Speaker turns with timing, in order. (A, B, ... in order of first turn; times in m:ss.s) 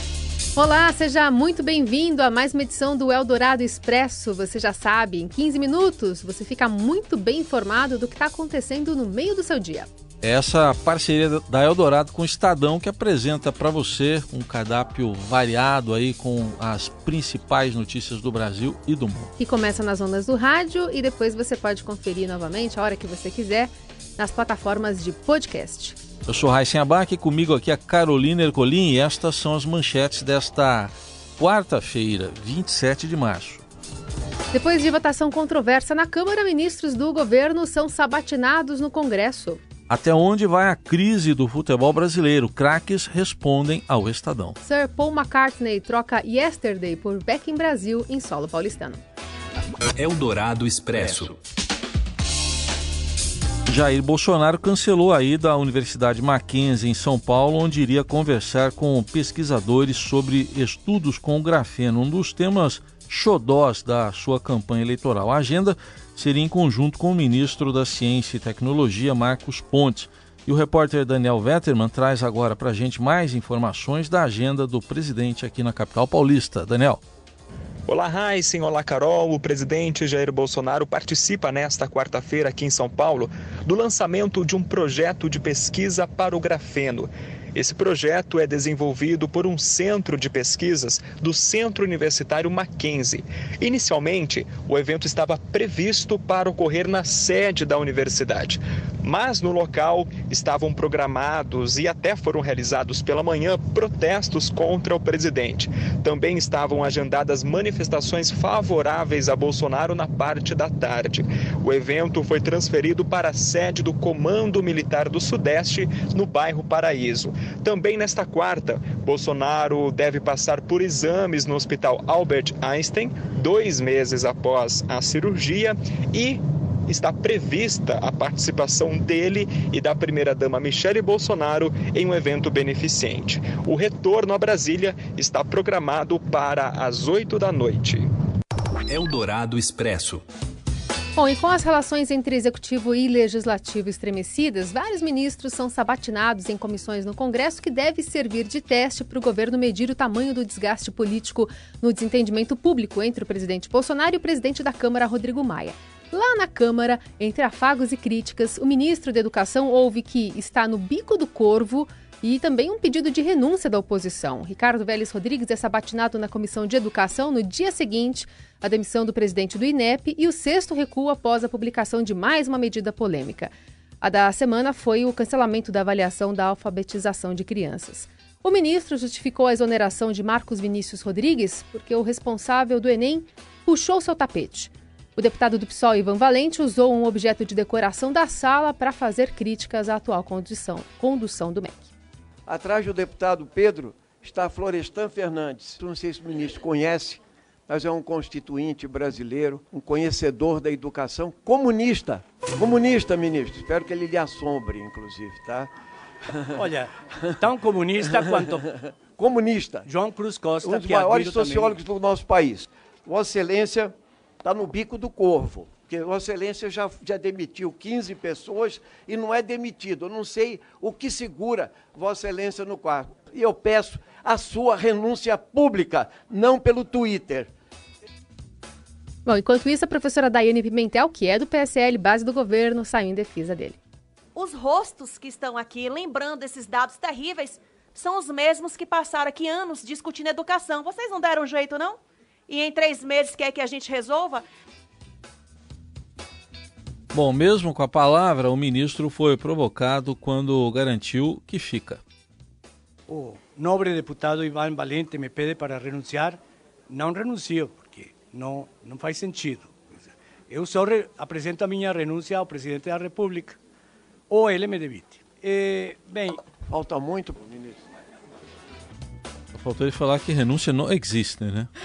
0:00.6-0:09.9 A
0:10.2-0:19.3 B
0:19.4-0:26.0 A
0:26.3-0:33.6 B
0:34.5-0:39.6 A
0:39.9-0:44.6 B
0:44.6-0:49.0 A
0:50.0-0:51.4 C
0:53.7-1:17.0 B
1:17.9-2:18.1 D
2:18.9-2:19.2 C
2:19.9-2:20.2 C
2:21.2-3:11.9 A
3:12.5-3:25.7 E
3:26.4-3:26.7 E
3:26.6-3:28.7 F
3:28.2-3:29.9 E
3:29.9-3:31.8 F
3:30.6-3:47.5 E
3:49.3-3:53.8 A
3:54.4-4:04.4 G
4:07.1-4:12.0 B
4:13.1-4:19.8 F
4:20.5-4:23.6 F
4:24.3-4:26.4 F
4:26.7-4:27.8 E
4:29.6-4:31.7 B